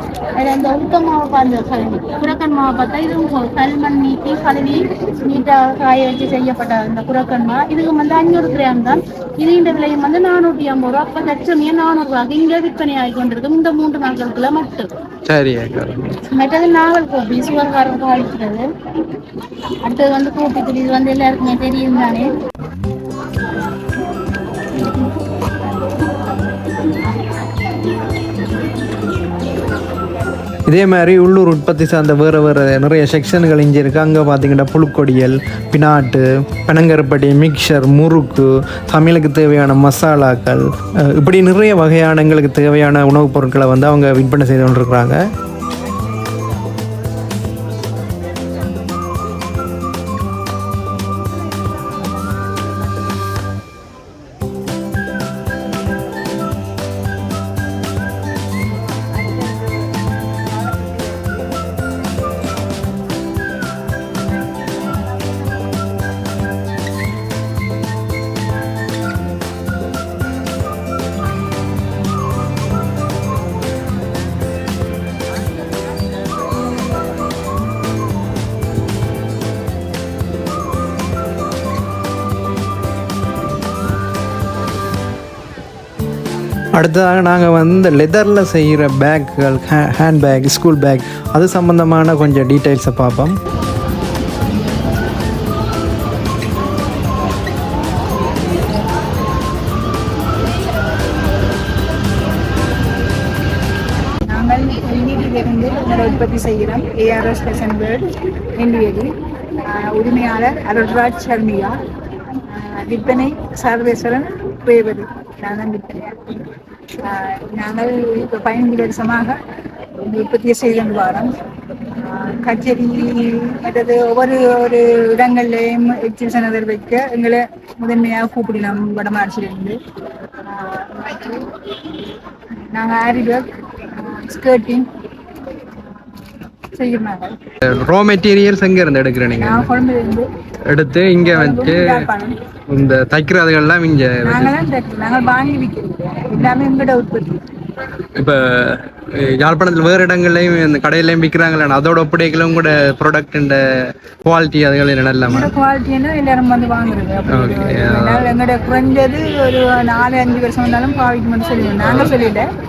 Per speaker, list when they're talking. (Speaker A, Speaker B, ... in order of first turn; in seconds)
Speaker A: 0.4-14.9, 16.3-18.6, 19.8-22.3
Speaker B: 15.3-16.2, 30.7-45.2, 86.8-93.3, 137.6-139.7, 140.7-142.1, 142.7-144.6, 148.2-153.6, 154.2-155.5, 157.3-158.3, 161.8-162.2
Speaker C: 104.3-109.1, 109.7-111.8, 112.5-116.2, 117.0-119.4, 120.0-121.3, 122.0-129.8, 130.5-131.4, 132.7-134.8, 136.8-137.4, 139.4-140.3, 141.3-142.3, 144.2-147.4, 155.3-162.5